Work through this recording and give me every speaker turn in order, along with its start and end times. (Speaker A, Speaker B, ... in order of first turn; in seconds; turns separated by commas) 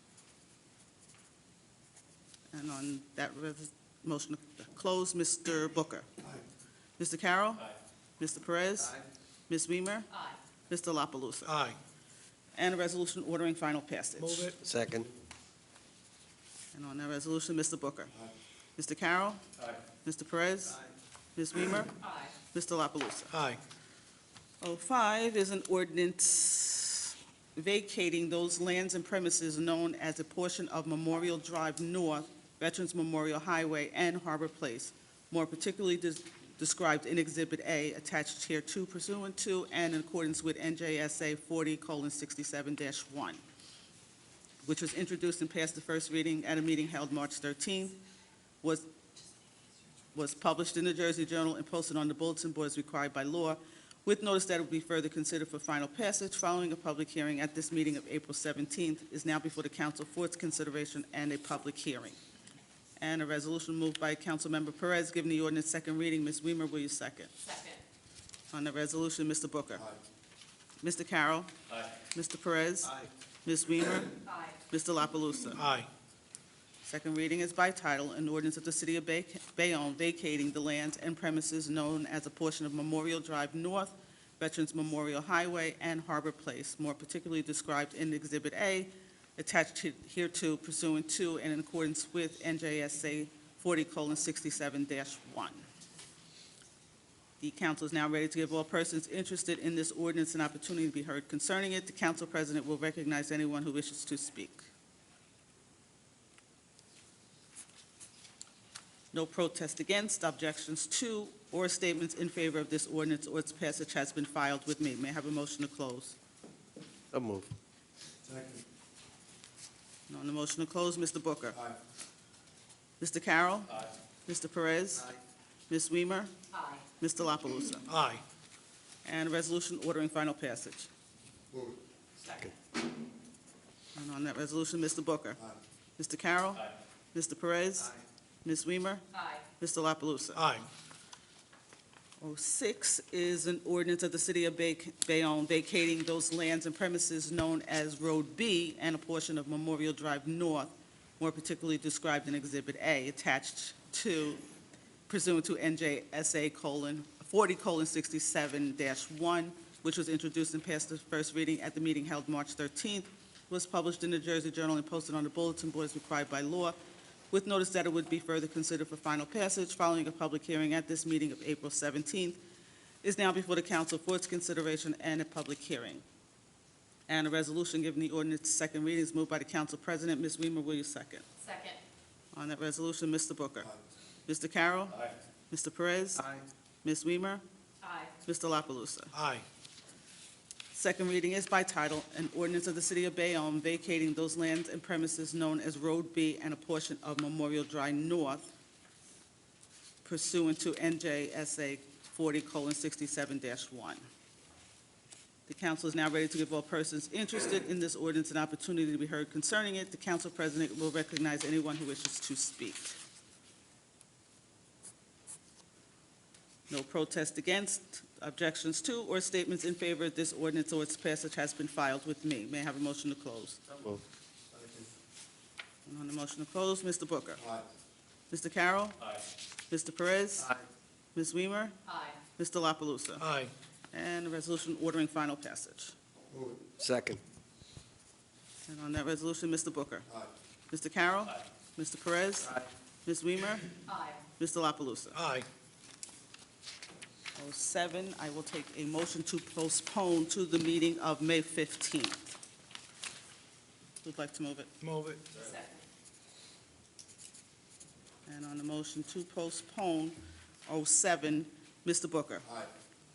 Speaker A: 2.5-6.2, Speaker A: 7.0-10.1, Speaker A: 10.7-11.5, Speaker B: 11.5-11.8, Speaker A: 12.5-14.5, Speaker B: 14.2-14.6, Speaker C: 14.6-15.1, Speaker A: 16.7-18.1, Speaker A: 18.8-23.3, Speaker D: 22.0-22.3, Speaker B: 23.3-23.6, Speaker A: 24.6-43.4, Speaker A: 44.6-48.0, Speaker A: 48.6-48.9, Speaker A: 50.1-62.2, Speaker A: 63.0-67.3, Speaker D: 67.4-67.8, Speaker A: 68.5-69.9, Speaker A: 70.8-75.7, Speaker D: 74.2-74.6, Speaker B: 75.6-75.9, Speaker A: 76.8-95.6, Speaker A: 97.4-104.7, Speaker A: 109.1-116.2, Speaker C: 117.1-117.5, Speaker A: 120.1-121.6, Speaker A: 123.0-125.1, Speaker A: 125.7-126.3, Speaker D: 126.5-126.8, Speaker A: 126.9-127.9, Speaker B: 127.9-128.2, Speaker A: 129.0-130.9, Speaker D: 132.2-132.5, Speaker A: 133.9-135.4, Speaker A: 136.0-140.4, Speaker D: 139.1-139.4, Speaker B: 140.3-140.7, Speaker A: 142.2-154.4, Speaker A: 155.1-166.8, Speaker A: 167.3-172.4, Speaker A: 173.0-176.0, Speaker A: 177.1-181.2, Speaker D: 181.4-181.8, Speaker A: 182.3-183.7, Speaker A: 184.2-187.4, Speaker D: 187.8-188.1, Speaker A: 188.2-189.1, Speaker B: 189.1-189.4, Speaker A: 190.7-198.5, Speaker A: 200.0-204.0, Speaker A: 205.5-213.0, Speaker A: 216.7-223.6, Speaker C: 223.7-224.0, Speaker A: 225.8-227.5, Speaker A: 228.3-229.1, Speaker A: 229.7-230.5, Speaker A: 231.1-233.2, Speaker D: 231.9-232.2, Speaker B: 233.2-233.5, Speaker A: 233.9-235.9, Speaker C: 236.6-237.2, Speaker A: 238.7-240.1, Speaker A: 240.7-243.7, Speaker D: 243.9-244.2, Speaker A: 244.3-245.2, Speaker B: 245.1-245.5, Speaker A: 247.4-252.2, Speaker A: 254.0-254.7, Speaker B: 254.8-255.3, Speaker D: 255.4-255.8, Speaker A: 258.2-262.5